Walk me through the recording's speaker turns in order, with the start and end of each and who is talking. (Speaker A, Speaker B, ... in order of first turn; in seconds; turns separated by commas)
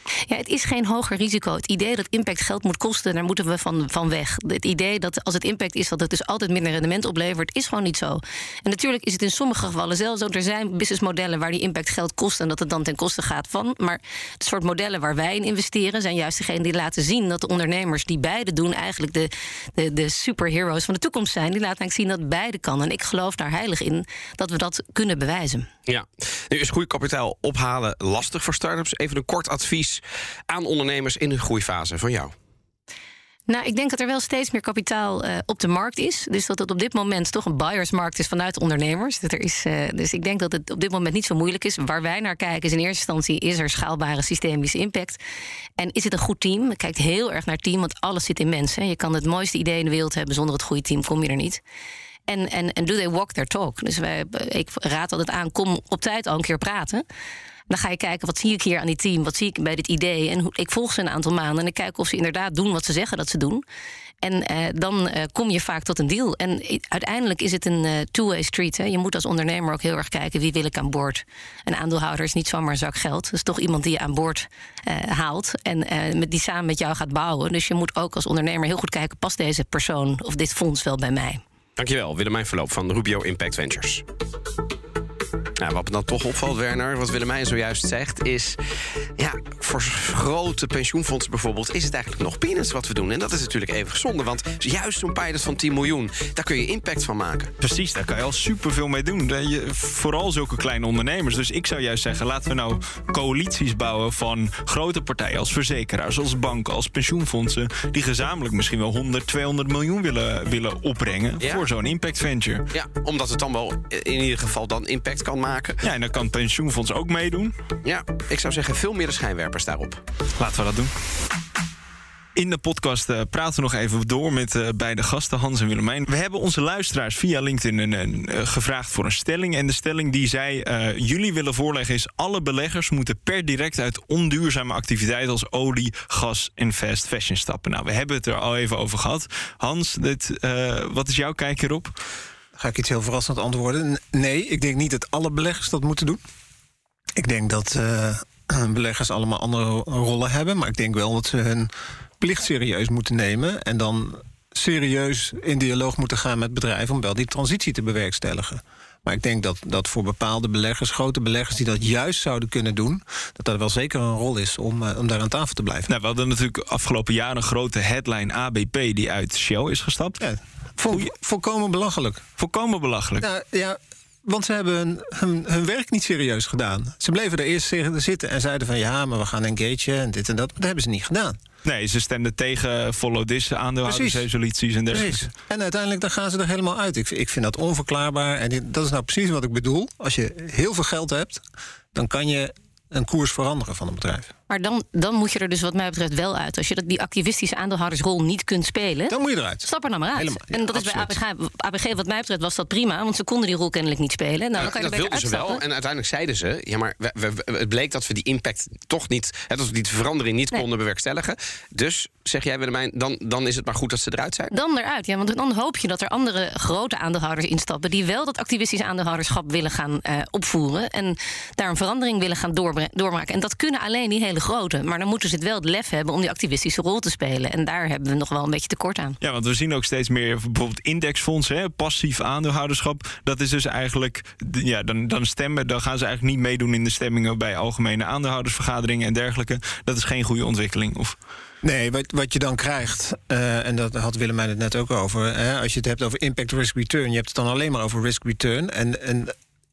Speaker A: 0.3-25.7, Speaker B: 25.9-32.3, Speaker A: 33.5-45.2, Speaker A: 45.8-51.6, Speaker A: 52.3-57.0, Speaker A: 57.7-63.6, Speaker A: 64.2-81.4, Speaker B: 81.8-84.0, Speaker B: 85.6-88.6, Speaker B: 89.2-97.5, Speaker C: 97.6-112.7, Speaker B: 111.4-111.7, Speaker B: 112.7-115.8, Speaker C: 115.8-117.5, Speaker B: 117.8-120.0, Speaker C: 120.3-120.9, Speaker C: 122.3-141.9, Speaker D: 142.6-146.2, Speaker D: 147.2-165.9, Speaker C: 165.9-170.2, Speaker D: 170.2-172.2, Speaker C: 172.4-173.2, Speaker D: 173.2-181.4, Speaker C: 181.6-185.2, Speaker D: 183.8-184.3, Speaker D: 184.9-191.4, Speaker D: 191.9-194.3, Speaker A: 194.5-205.6, Speaker D: 199.1-201.2, Speaker B: 204.6-214.5, Speaker A: 214.5-229.2, Speaker C: 229.2-241.2, Speaker D: 241.6-249.3